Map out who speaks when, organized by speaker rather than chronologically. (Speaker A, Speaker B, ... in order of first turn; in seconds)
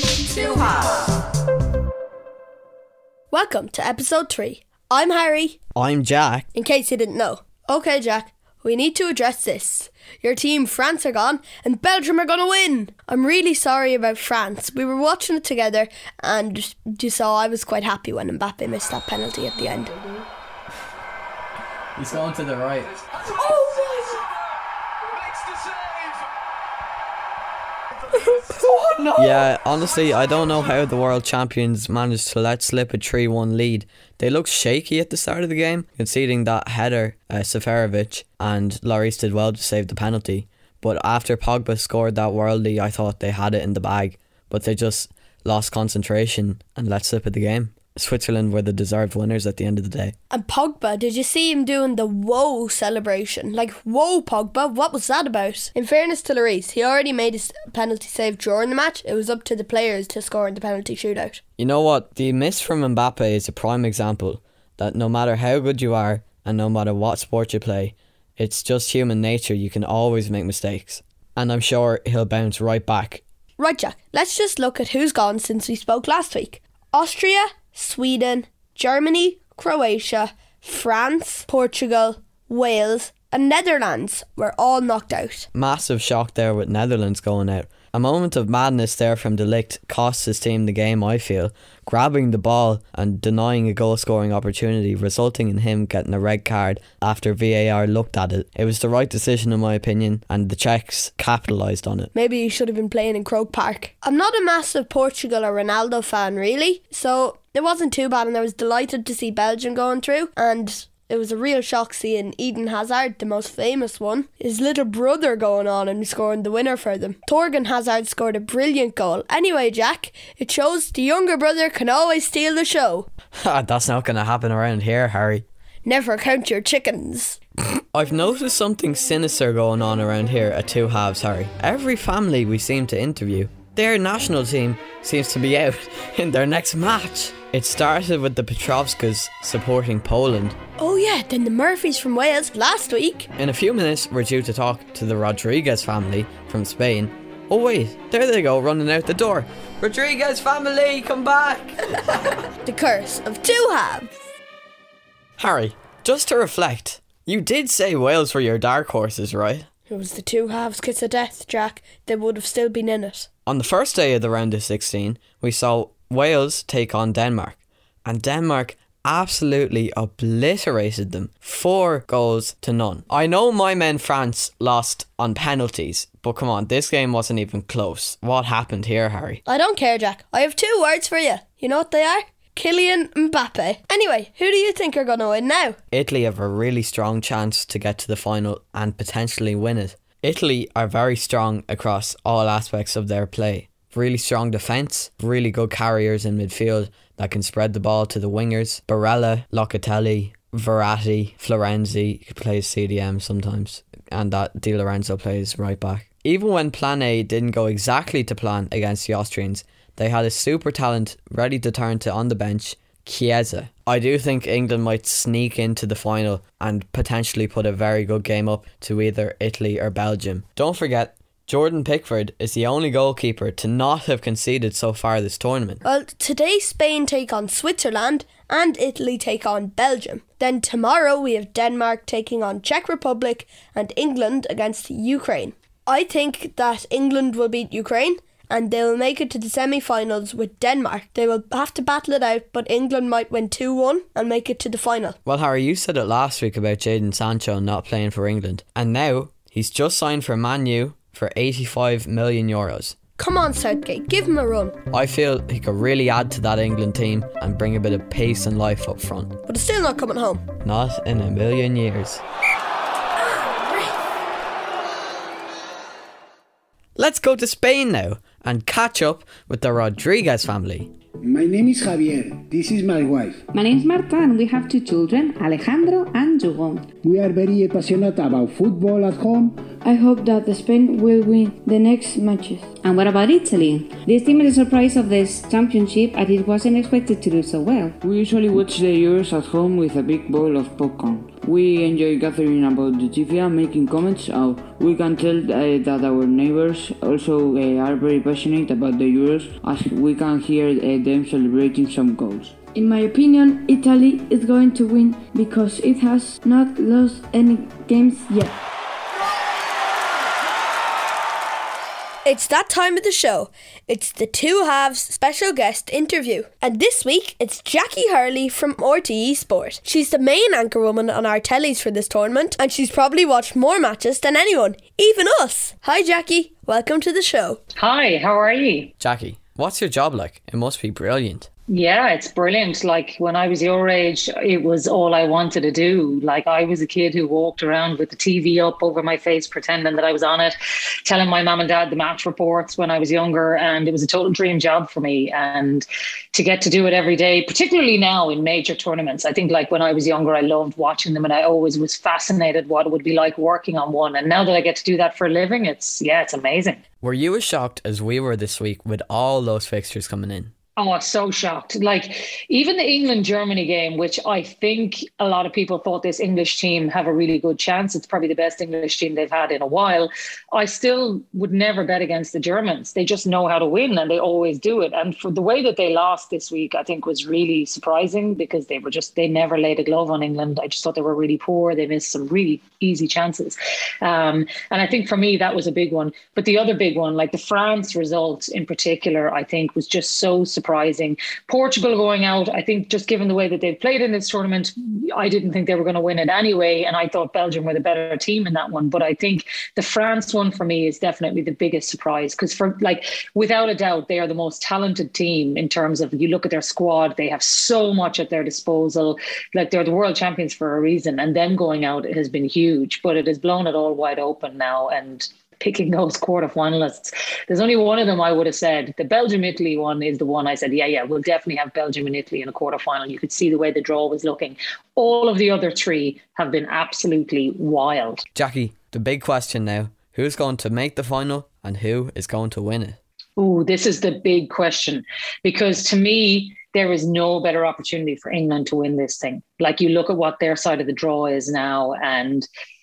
Speaker A: 0.2-1.0, 3.3-5.6, 6.5-20.2, 23.4-23.9, 28.4-29.0, 50.3-61.4, 73.6-85.5, 102.1-123.1, 125.8-127.4, 140.8-143.3, 152.6-154.2, 159.9-163.3, 179.4-185.8, 225.8-245.2, 253.2-254.7, 259.4-260.4, 263.2-263.9, 312.2-327.6
Speaker B: 5.8-6.5, 21.9-22.9, 29.1-50.1, 61.6-73.2, 85.5-102.1, 123.4-125.4, 127.9-140.6, 143.4-152.3, 155.4-159.7, 163.4-179.4, 185.9-225.8, 245.2-252.9, 254.9-259.4, 260.6-262.2, 267.0-270.9, 329.0-331.5, 357.0-360.5, 428.3-433.0
Speaker C: 271.2-273.4, 277.0-279.6
Speaker D: 273.5-276.8, 282.8-287.9
Speaker E: 279.8-282.6, 302.8-308.5
Speaker F: 288.0-302.5
Speaker G: 327.8-328.9, 331.7-340.5, 341.1-356.8, 360.8-428.2, 433.4-442.5